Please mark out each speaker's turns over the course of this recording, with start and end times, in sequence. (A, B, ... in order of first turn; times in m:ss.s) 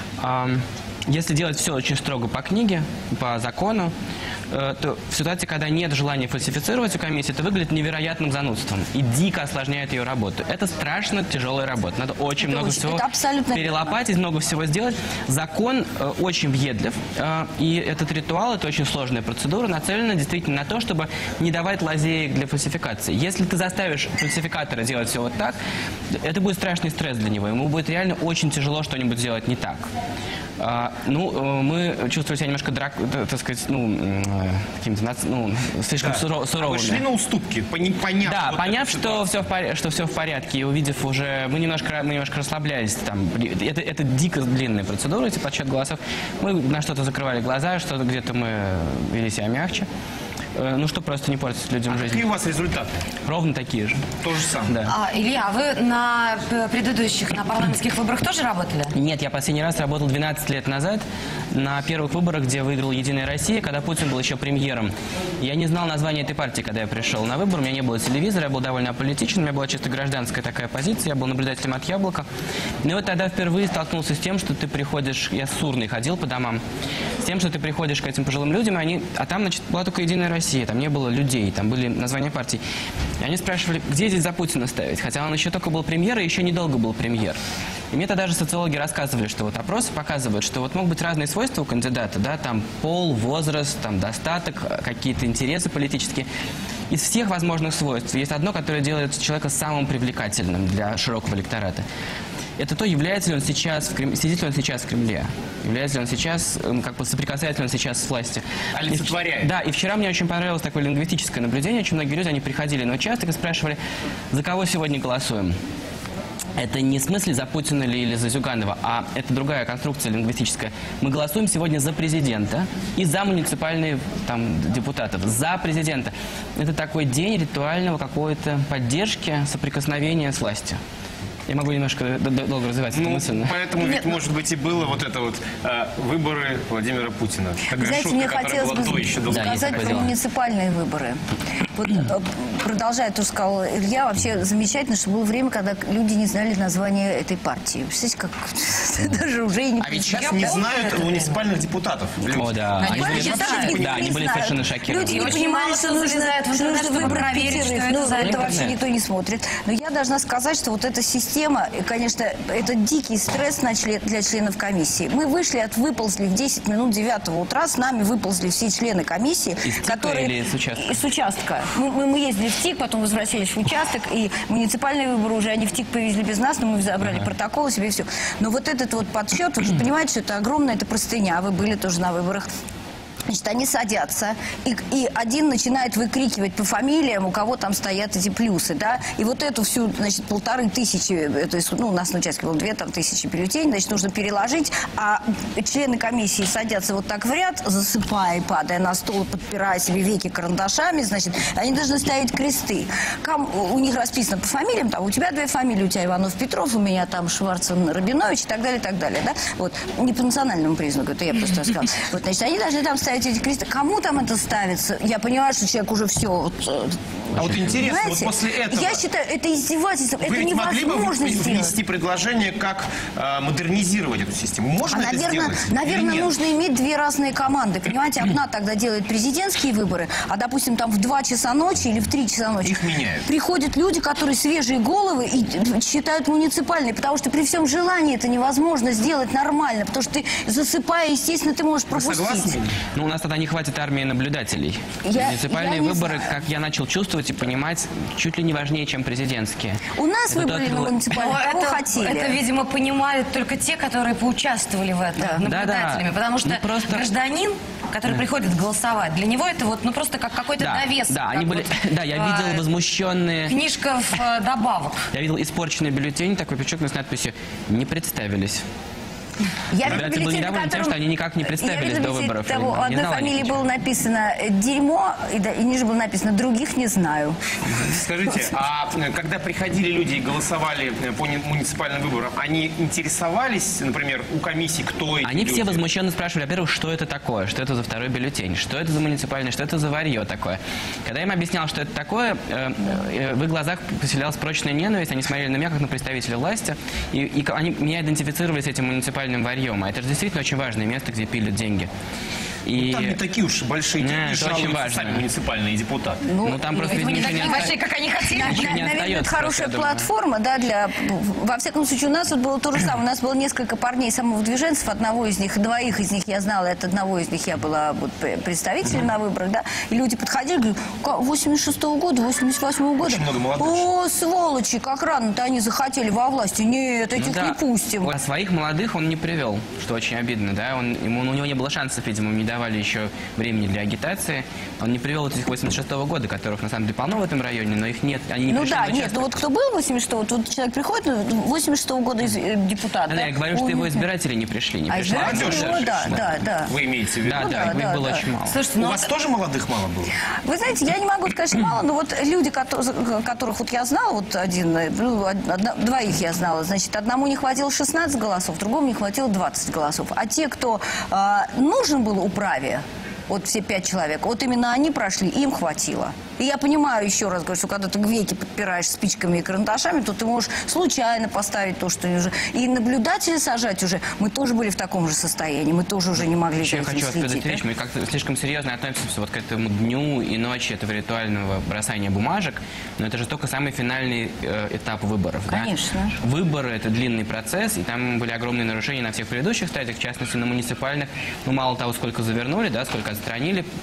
0:00.2-0:03.9 A
0:04.5-0:25.6 A
0:12.4-0:14.0 B
0:26.2-0:29.9 A
0:30.6-0:37.0 A
0:36.0-0:39.3 C
0:38.2-0:49.9 A
0:50.6-0:52.2 A
0:51.9-0:52.9 C
0:53.3-0:54.0 A
0:54.2-0:54.8 C
0:54.7-0:54.9 A
0:54.9-0:58.9 D
0:58.9-1:12.3 A
1:12.8-1:16.6 A
1:17.2-1:22.6 A
1:23.2-1:27.4 A
1:27.9-1:36.3 A
1:36.9-1:41.8 A
1:42.6-1:53.8 A
1:48.7-1:49.5 C
1:54.3-1:55.6 A
1:56.6-2:10.8 A
2:11.5-2:13.5 A
2:12.9-2:20.1 C
2:17.8-2:21.2 B
2:19.3-2:20.1 A
2:21.7-2:30.6 B
2:29.8-2:34.2 C
2:30.1-2:31.4 D
2:32.3-2:35.4 A
2:32.8-2:33.8 D
2:32.9-3:02.5 B
2:35.0-2:38.7 D
2:38.2-2:38.7 A
2:49.6-2:51.0 A
3:03.3-3:41.8 B
3:37.4-3:39.0 C
3:40.2-3:46.3 C
3:44.8-4:02.6 B
3:52.6-3:53.3 C
4:01.9-4:02.8 C
4:03.0-4:11.1 A
4:05.0-4:06.4 B
4:09.9-4:12.4 B
4:11.1-4:22.6 D
4:15.2-4:15.4 B
4:15.4-4:17.1 A
4:20.6-4:23.6 A
4:23.5-4:25.1 D
4:25.1-4:28.6 A
4:29.7-4:37.4 B
4:29.8-4:33.6 A
4:37.7-4:45.8 C
4:45.2-5:01.9 A
5:02.7-5:03.2 A
5:02.8-5:06.3 C
5:04.0-5:05.2 A
5:06.3-5:07.7 B
5:06.4-5:07.8 A
5:06.9-5:08.8 D
5:08.2-5:28.1 B
5:08.4-5:10.1 A
5:23.0-5:23.9 C
5:27.2-5:39.4 A
5:38.5-5:44.1 B
5:43.1-5:46.2 A
5:44.9-5:46.7 B
5:45.1-5:47.5 C
5:47.2-5:48.6 A
5:47.3-5:48.2 B
5:48.4-5:49.1 D
5:48.8-5:50.1 C
5:50.4-6:17.6 B
6:16.6-6:33.7 A
6:25.5-6:26.2 B